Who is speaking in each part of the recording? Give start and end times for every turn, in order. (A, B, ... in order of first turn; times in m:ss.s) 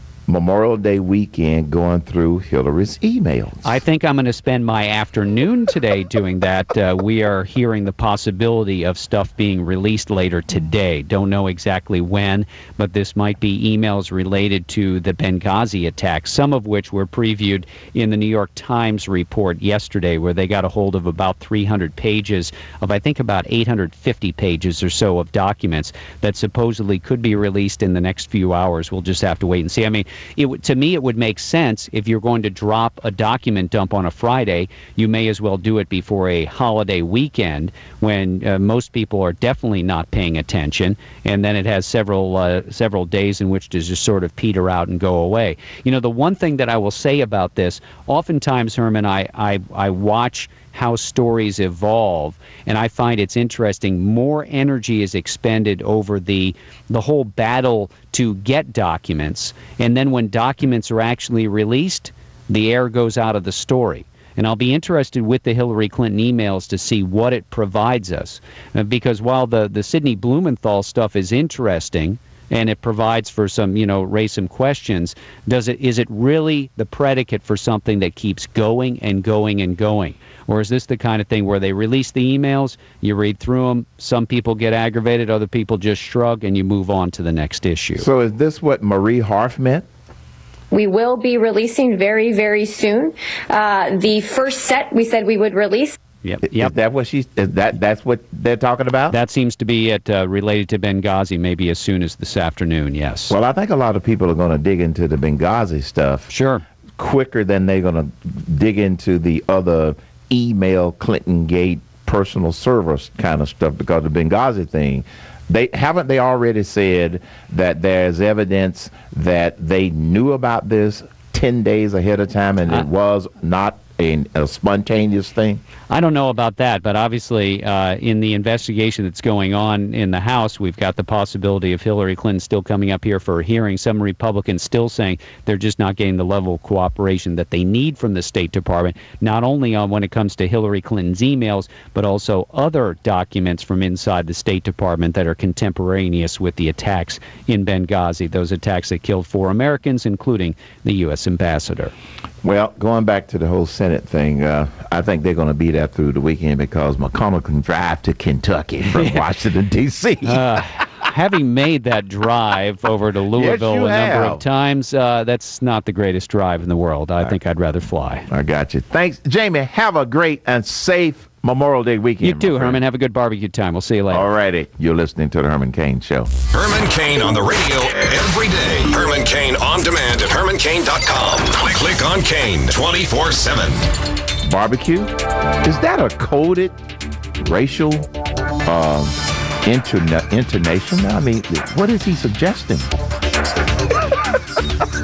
0:00.3-0:03.8 A
0:03.6-1:28.1 B
1:28.0-1:29.8 A
1:30.7-1:36.0 C
1:36.2-1:36.7 B
1:36.5-1:39.2 A
1:39.1-1:43.4 B
1:43.3-1:46.3 A
1:46.3-1:46.6 B
1:47.0-2:05.6 A
2:05.9-2:31.9 B
2:32.4-2:40.6 A
2:38.9-2:39.2 B
2:40.2-2:48.3 B
2:43.3-2:44.4 A
2:48.3-2:52.8 A
2:52.2-2:54.3 B
2:54.1-2:56.3 A
2:56.5-3:03.9 D
3:04.4-3:05.1 A
3:05.6-3:06.8 A
3:07.4-3:08.1 A
3:08.7-3:12.9 A